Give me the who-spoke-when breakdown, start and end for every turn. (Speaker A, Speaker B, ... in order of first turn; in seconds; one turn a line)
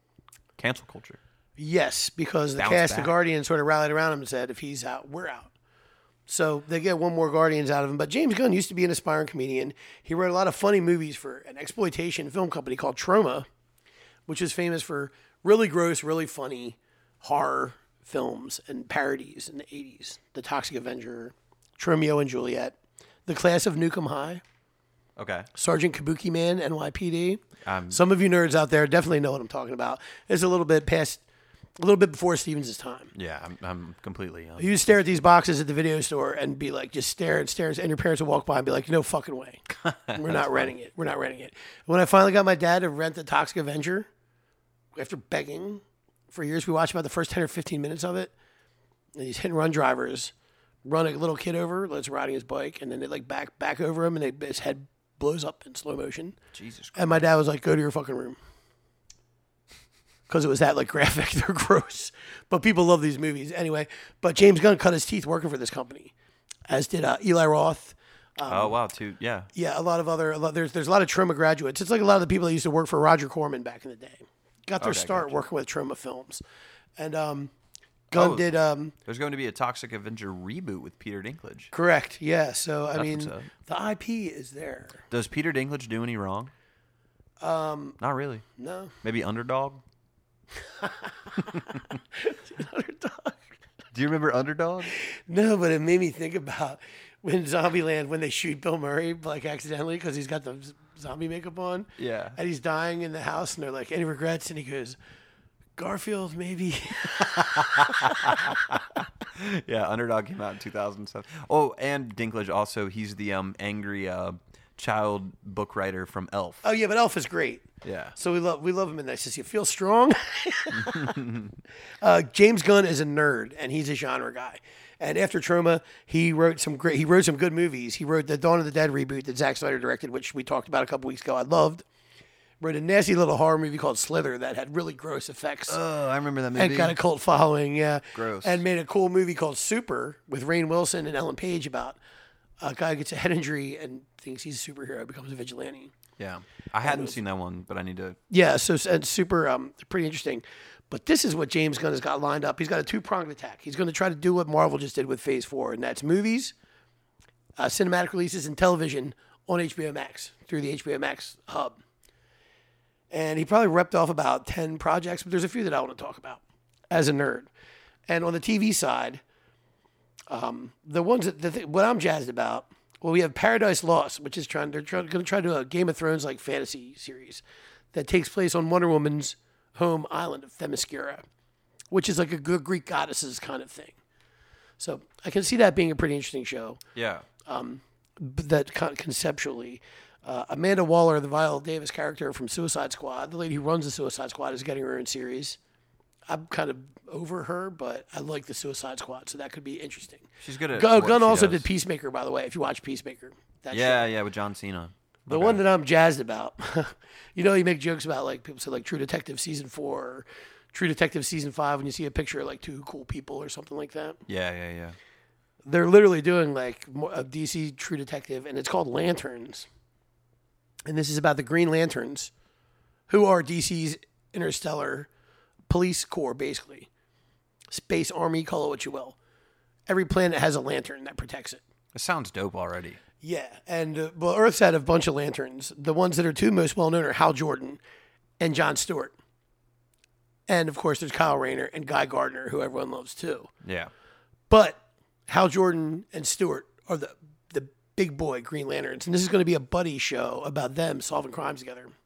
Speaker A: 0.6-1.2
Speaker B: 1.6-5.5
Speaker A: 2.6-3.1
Speaker B: 6.3-13.5
Speaker B: 14.3-24.4
Speaker A: 25.2-25.5
Speaker B: 25.6-31.2
Speaker A: 27.6-28.0
Speaker B: 31.8-33.1
Speaker A: 33.1-35.0
Speaker B: 34.6-44.1
Speaker A: 39.8-40.7
Speaker B: 45.0-48.3
Speaker B: 49.2-50.3
Speaker B: 50.9-56.4
Speaker A: 56.5-57.2
Speaker B: 57.0-58.4
Speaker B: 60.3-66.1
Speaker B: 66.7-68.8
Speaker A: 68.5-69.5
Speaker B: 69.5-76.4
Speaker A: 74.8-75.4
Speaker B: 77.0-77.5
Speaker A: 78.1-78.5
Speaker B: 78.1-79.0
Speaker A: 79.1-81.7
Speaker B: 81.7-85.0
Speaker A: 83.0-83.5
Speaker A: 85.1-86.5
Speaker B: 87.4-88.0
Speaker A: 88.0-88.5
Speaker B: 88.6-89.0
Speaker A: 89.0-89.8
Speaker B: 90.6-93.4
Speaker A: 93.9-94.9
Speaker B: 94.9-105.0
Speaker A: 102.0-102.4
Speaker B: 105.8-108.8
Speaker A: 107.2-116.7
Speaker B: 116.6-121.2
Speaker A: 117.8-118.2
Speaker A: 120.7-121.6
Speaker B: 122.0-131.8
Speaker B: 132.6-135.8
Speaker A: 135.7-137.0
Speaker B: 136.6-142.0
Speaker A: 138.2-138.6
Speaker B: 142.6-145.9
Speaker A: 146.2-148.2
Speaker B: 146.8-147.2
Speaker B: 148.3-156.5
Speaker B: 157.6-161.8
Speaker B: 163.1-167.5
Speaker B: 168.1-169.2
Speaker B: 170.3-177.4
Speaker B: 177.9-181.2
Speaker B: 181.9-184.0
Speaker B: 184.8-186.8
Speaker A: 186.9-187.3
Speaker B: 187.4-195.6
Speaker B: 196.3-204.1
Speaker A: 200.4-201.7
Speaker A: 203.7-205.6
Speaker B: 205.3-214.2
Speaker A: 214.3-215.0
Speaker B: 215.7-219.7
Speaker B: 220.9-222.3
Speaker B: 223.1-225.1
Speaker B: 225.7-226.9
Speaker B: 227.7-229.2
Speaker B: 229.9-231.6
Speaker A: 231.9-233.0
Speaker B: 233.2-237.8
Speaker B: 238.4-239.2
Speaker B: 240.5-243.5
Speaker A: 243.6-243.9
Speaker B: 244.5-251.9